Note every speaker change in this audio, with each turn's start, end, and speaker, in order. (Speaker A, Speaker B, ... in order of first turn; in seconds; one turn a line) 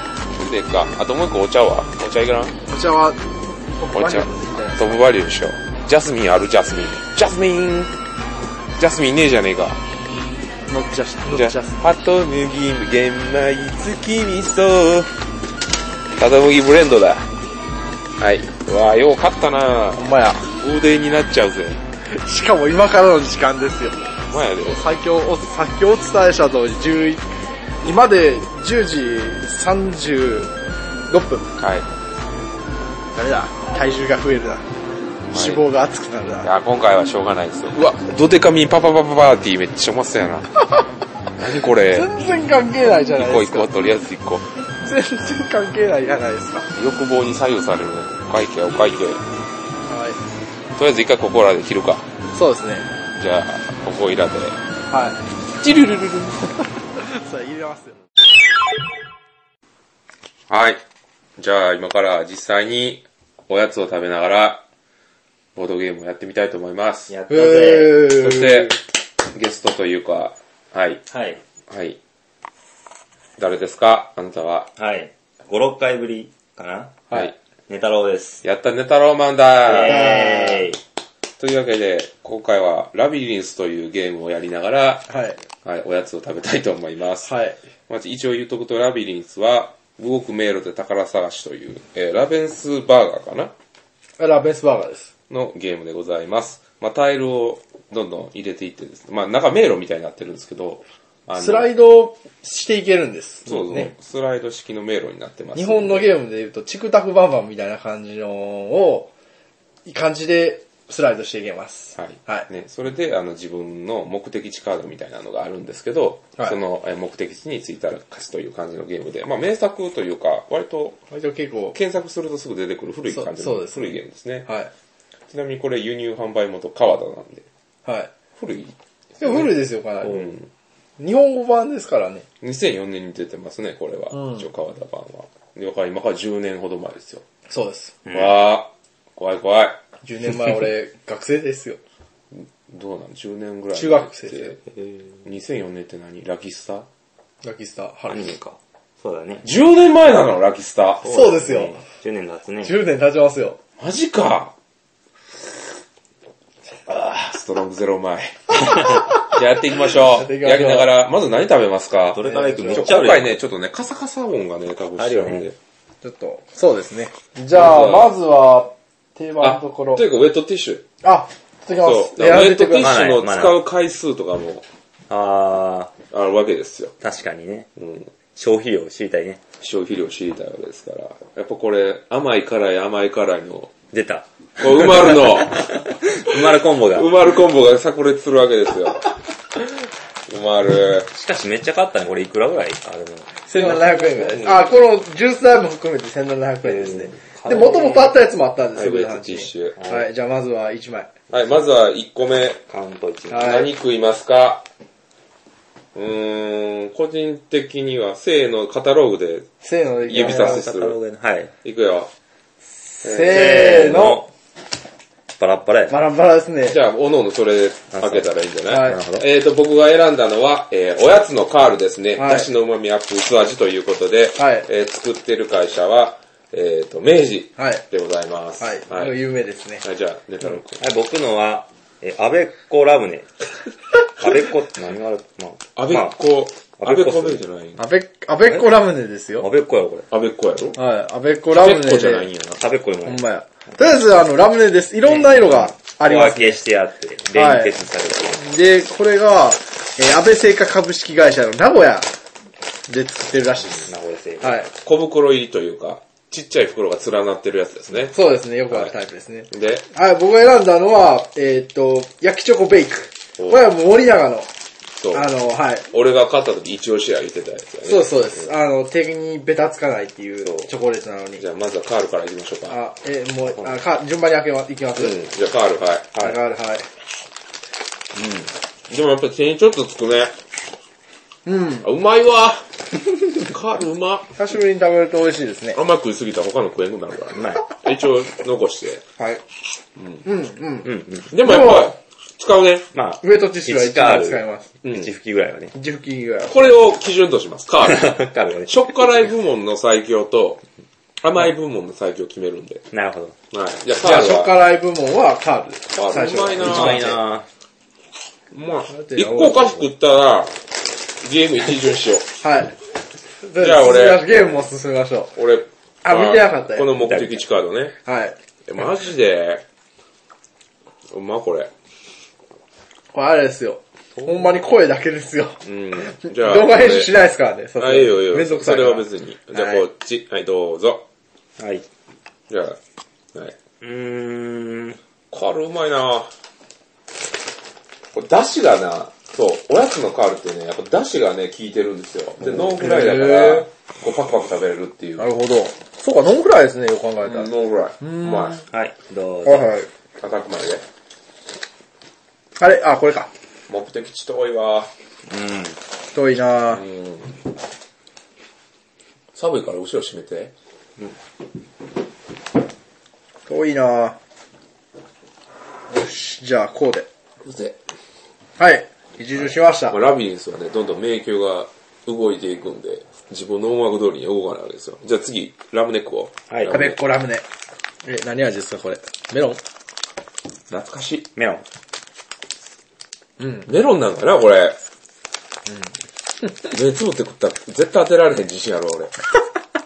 Speaker A: 0.3-2.5
Speaker B: 2.7-5.1
Speaker A: 3.9-7.9
Speaker A: 8.8-9.8
Speaker B: 10.7-11.8
Speaker A: 11.3-15.1
Speaker A: 16.2-17.2
Speaker A: 18.2-21.8
Speaker B: 19.9-20.4
Speaker B: 22.1-27.2
Speaker A: 24.3-24.8
Speaker B: 27.8-30.5
Speaker B: 31.1-31.5
Speaker A: 31.6-31.9
Speaker B: 33.1-34.6
Speaker A: 35.3-35.6
Speaker B: 35.3-36.5
Speaker A: 36.4-40.5
Speaker A: 41.4-42.1
Speaker B: 41.9-43.7
Speaker A: 43.0-44.5
Speaker B: 44.8-46.7
Speaker A: 46.8-49.2
Speaker B: 49.9-50.2
Speaker A: 50.8-52.0
Speaker B: 52.3-52.9
Speaker A: 53.1-54.6
Speaker B: 54.9-55.2
Speaker A: 55.6-56.6
Speaker B: 57.0-58.0
Speaker A: 60.5-60.8
Speaker A: 61.4-64.6
Speaker A: 65.5-67.1
Speaker C: 67.1-68.0
Speaker B: 67.3-68.8
Speaker A: 68.0-68.8
Speaker A: 69.3-71.0
Speaker C: 71.1-71.4
Speaker A: 71.7-72.0
Speaker A: 73.4-74.7
Speaker C: 74.8-77.0
Speaker C: 77.7-78.4
Speaker A: 78.4-80.3
Speaker C: 79.6-80.8
Speaker B: 79.8-80.7
Speaker A: 81.4-85.1
Speaker B: 85.1-85.4
Speaker A: 85.6-87.3
Speaker B: 87.2-87.6
Speaker A: 87.9-93.5
Speaker B: 94.2-95.1
Speaker A: 95.3-101.7
Speaker B: 101.3-103.9
Speaker A: 103.5-106.1
Speaker B: 105.5-109.1
Speaker B: 109.8-112.5
Speaker A: 112.0-121.0
Speaker B: 121.1-121.8
Speaker A: 121.7-124.5
Speaker B: 123.1-124.7
Speaker A: 125.3-127.5
Speaker B: 127.8-128.1
Speaker A: 128.4-129.5
Speaker B: 129.2-130.4
Speaker A: 130.0-130.4
Speaker B: 131.0-132.2
Speaker A: 132.4-137.2
Speaker B: 134.1-134.4
Speaker B: 137.5-137.9
Speaker A: 138.1-139.8
Speaker B: 140.0-141.8
Speaker A: 142.3-144.6
Speaker B: 143.7-144.6
Speaker A: 145.2-146.8
Speaker B: 147.4-148.3
Speaker C: 148.1-149.5
Speaker A: 149.4-151.1
Speaker C: 151.0-152.8
Speaker B: 151.0-151.8
Speaker B: 152.6-153.6
Speaker A: 153.8-154.5
Speaker A: 156.9-165.6
Speaker B: 159.9-160.9
Speaker C: 162.1-163.4
Speaker B: 162.2-163.0
Speaker C: 165.0-165.5
Speaker B: 166.0-170.0
Speaker A: 167.5-168.1
Speaker A: 169.4-170.8
Speaker B: 171.0-172.9
Speaker A: 171.8-174.6
Speaker C: 172.8-173.6
Speaker C: 175.1-175.9
Speaker A: 176.1-176.9
Speaker C: 177.0-177.7
Speaker A: 177.8-178.1
Speaker C: 178.3-179.4
Speaker A: 179.6-183.7
Speaker C: 183.9-187.1
Speaker A: 184.6-189.1
Speaker A: 190.3-191.1
Speaker C: 191.1-193.8
Speaker B: 193.5-201.1
Speaker A: 193.6-194.7
Speaker C: 196.6-198.1
Speaker A: 198.8-199.8
Speaker C: 199.8-200.1
Speaker A: 201.3-202.6
Speaker C: 202.7-203.6
Speaker B: 203.3-203.7
Speaker A: 203.3-204.6
Speaker A: 205.9-209.5
Speaker B: 209.6-210.6
Speaker A: 210.1-211.0
Speaker C: 210.1-211.5
Speaker A: 211.6-212.1
Speaker B: 213.0-214.2
Speaker A: 213.0-213.9
Speaker C: 213.3-214.3
Speaker C: 215.4-216.0
Speaker B: 215.9-216.8
Speaker A: 216.7-229.2
Speaker C: 217.9-219.2
Speaker B: 218.7-219.0
Speaker B: 222.2-222.5
Speaker B: 224.4-224.7
Speaker B: 227.6-227.8
Speaker B: 228.6-229.8
Speaker A: 229.8-230.8
Speaker C: 230.8-233.3
Speaker C: 234.2-236.1
Speaker A: 235.8-237.8
Speaker C: 236.8-237.4
Speaker B: 237.8-239.4
Speaker C: 239.4-240.1
Speaker A: 240.1-240.8
Speaker B: 240.8-242.3
Speaker A: 241.5-242.4
Speaker C: 242.3-243.2
Speaker B: 243.0-246.6
Speaker C: 245.1-248.4
Speaker B: 247.3-247.8
Speaker B: 248.3-252.1
Speaker B: 252.9-254.7
Speaker C: 253.8-254.6
Speaker A: 254.8-258.1
Speaker B: 258.1-264.5
Speaker A: 259.5-259.9
Speaker A: 263.4-263.6
Speaker A: 265.0-265.3
Speaker B: 265.1-265.8
Speaker A: 265.9-268.5
Speaker B: 267.8-271.4
Speaker A: 271.4-272.8
Speaker B: 272.7-275.1
Speaker A: 275.0-276.3
Speaker B: 276.1-276.9
Speaker A: 278.1-280.3
Speaker B: 281.4-281.9
Speaker A: 281.8-282.7
Speaker A: 283.3-284.3
Speaker B: 284.4-285.8
Speaker A: 285.7-289.0
Speaker C: 287.3-287.6
Speaker A: 290.0-290.2
Speaker B: 290.2-291.9
Speaker C: 290.8-291.3
Speaker A: 291.3-292.9
Speaker C: 292.9-295.7
Speaker B: 293.2-294.7
Speaker A: 294.8-295.1
Speaker B: 295.7-296.6
Speaker A: 296.5-300.6
Speaker C: 297.8-299.0
Speaker A: 301.2-302.8
Speaker C: 302.9-303.3
Speaker A: 303.5-304.6
Speaker B: 304.0-307.1
Speaker A: 305.9-307.2
Speaker C: 306.6-307.5
Speaker A: 308.5-310.6
Speaker B: 308.9-309.8
Speaker A: 311.2-312.3
Speaker B: 312.4-312.7
Speaker B: 313.4-315.3
Speaker A: 313.6-314.6
Speaker A: 315.4-317.9
Speaker B: 316.0-316.9
Speaker C: 317.0-317.4
Speaker B: 318.0-318.4
Speaker A: 318.7-319.6
Speaker A: 321.1-321.7
Speaker B: 323.1-329.8
Speaker A: 325.6-327.1
Speaker A: 327.8-331.0
Speaker C: 331.6-331.9
Speaker A: 332.5-332.8
Speaker C: 333.8-335.0
Speaker A: 335.3-336.3
Speaker A: 338.1-345.3
Speaker B: 342.8-343.7
Speaker B: 345.2-347.5
Speaker A: 347.2-348.6
Speaker B: 348.0-348.5
Speaker C: 348.6-349.7
Speaker B: 349.4-349.9
Speaker A: 350.2-350.8
Speaker B: 352.6-353.3
Speaker A: 353.7-354.9
Speaker C: 355.3-355.8
Speaker B: 356.1-356.8
Speaker A: 356.7-357.4
Speaker A: 359.3-360.5
Speaker B: 363.5-364.2
Speaker B: 365.9-367.1
Speaker A: 367.4-367.8
Speaker B: 368.6-370.0
Speaker A: 369.9-377.0
Speaker C: 376.5-376.8
Speaker B: 376.7-377.4
Speaker B: 378.0-379.6
Speaker A: 380.7-381.3
Speaker C: 381.3-381.6
Speaker A: 383.6-384.8
Speaker A: 386.6-389.1